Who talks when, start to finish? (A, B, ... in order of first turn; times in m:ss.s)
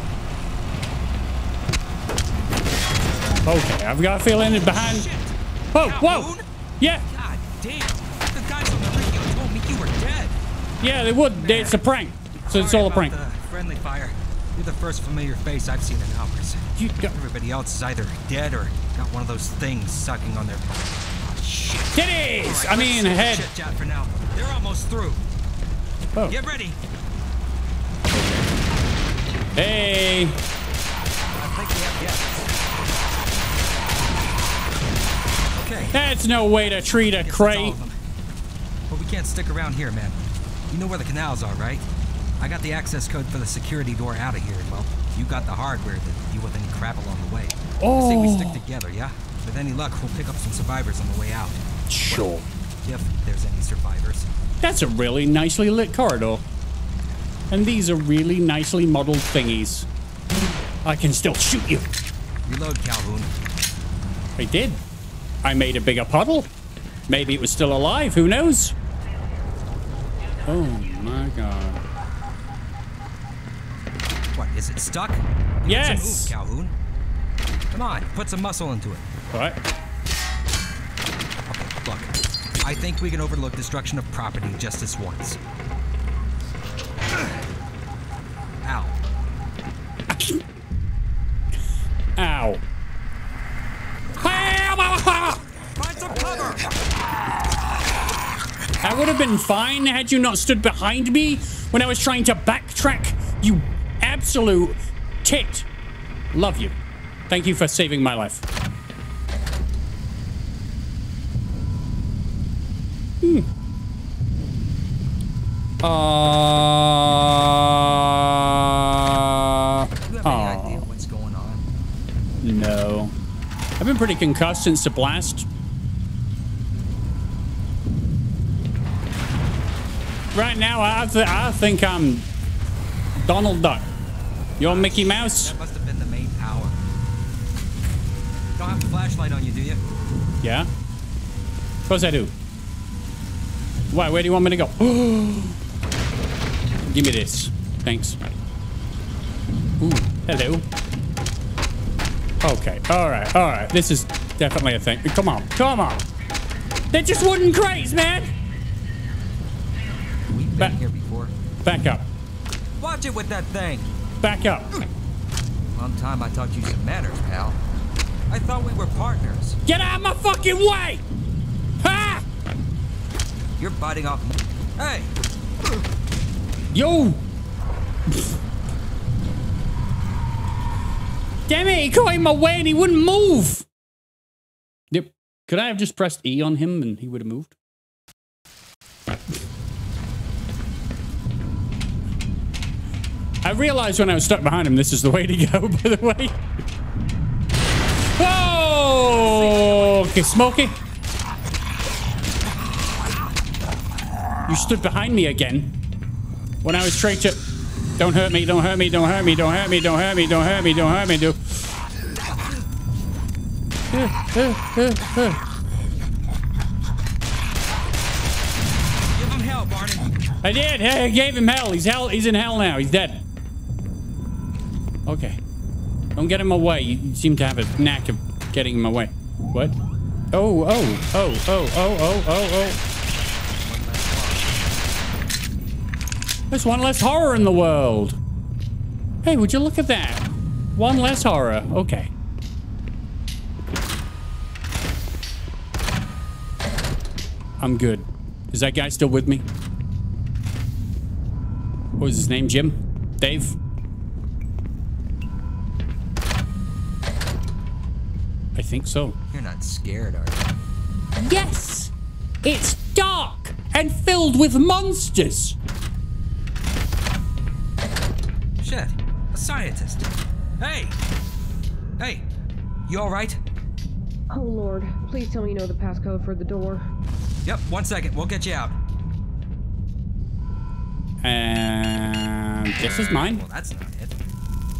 0:03.4-0:05.0 A
0:04.3-0:06.4 B
0:05.7-0:07.1 A
0:07.1-0:10.4 B
0:10.8-0:13.1 A
0:11.4-0:11.8 B
0:12.5-0:25.2 B
0:16.8-0:17.1 A
0:21.9-0:23.4 A
0:26.3-0:26.8 B
0:28.1-0:28.5 A
0:29.5-0:30.4 A
0:31.3-0:32.5 B
0:35.5-0:36.0 B
0:35.9-0:37.8 A
0:37.2-0:38.0 B
0:38.9-0:40.2 B
0:40.7-0:41.8 B
0:42.4-0:52.3 B
0:47.8-0:48.6 A
0:51.9-0:52.4 A
0:52.8-0:54.3 B
0:54.6-0:56.4 A
0:57.5-0:59.9 A
1:00.8-1:01.9 A
1:02.4-1:03.3 B
1:04.4-1:04.8 A
1:05.4-1:06.5 A
1:07.1-1:08.7 A
1:10.4-1:11.8 A
1:14.3-1:16.7 B
1:15.6-1:16.3 A
1:17.7-1:19.0 B
1:19.3-1:19.6 A
1:21.5-1:25.4 B
1:28.6-1:29.0 B
1:32.2-1:32.6 A
1:34.2-1:35.4 A
1:35.8-1:36.7 B
1:38.8-1:45.7 A
1:46.3-1:46.8 A
1:47.3-1:48.4 A
1:53.2-1:53.5 A
1:55.8-2:00.8 A
2:00.0-2:01.7 B
2:02.4-2:03.2 A
2:03.8-2:05.5 A
2:10.3-2:12.3 A
2:13.2-2:13.9 A
2:14.6-2:15.5 A
2:14.6-2:16.8 B
2:18.6-2:19.8 B
2:20.4-2:20.7 A
2:21.9-2:22.3 A
2:23.9-2:25.6 A
2:26.8-2:28.2 A
2:29.8-2:30.6 A
2:32.4-2:36.0 A
2:36.9-2:38.3 A
2:40.3-2:41.3 B
2:41.6-2:42.1 A
2:42.8-2:43.9 B
2:44.2-2:44.7 A
2:45.7-2:47.6 B
2:48.3-2:49.6 B
2:49.6-2:51.0 A
2:51.8-2:52.2 A
2:53.6-2:55.1 B
2:56.7-2:57.2 A
3:01.5-3:03.6 A
3:04.9-3:07.5 A
3:13.4-3:16.4 A
3:18.2-3:20.8 A
3:19.1-3:20.3 B
3:24.4-3:25.7 A
3:26.6-3:27.4 A
3:28.0-3:31.6 A
3:33.9-3:35.4 A
3:39.1-3:40.2 B
3:40.4-3:43.2 A
3:45.1-3:45.4 A
3:46.2-3:49.7 A
3:50.3-3:52.8 A
3:53.6-3:54.7 B
3:56.5-3:58.2 A
3:59.2-4:02.1 A
4:07.6-4:09.4 A
4:12.0-4:13.6 A
4:18.6-4:19.2 A
4:19.3-4:20.4 B
4:21.2-4:21.9 A
4:22.4-4:25.6 A
4:28.6-4:30.9 B
4:32.0-4:32.2 B
4:32.9-4:33.4 B
4:34.3-4:36.9 C
4:37.4-4:38.8 B
4:41.2-4:43.4 A
4:43.0-4:44.1 B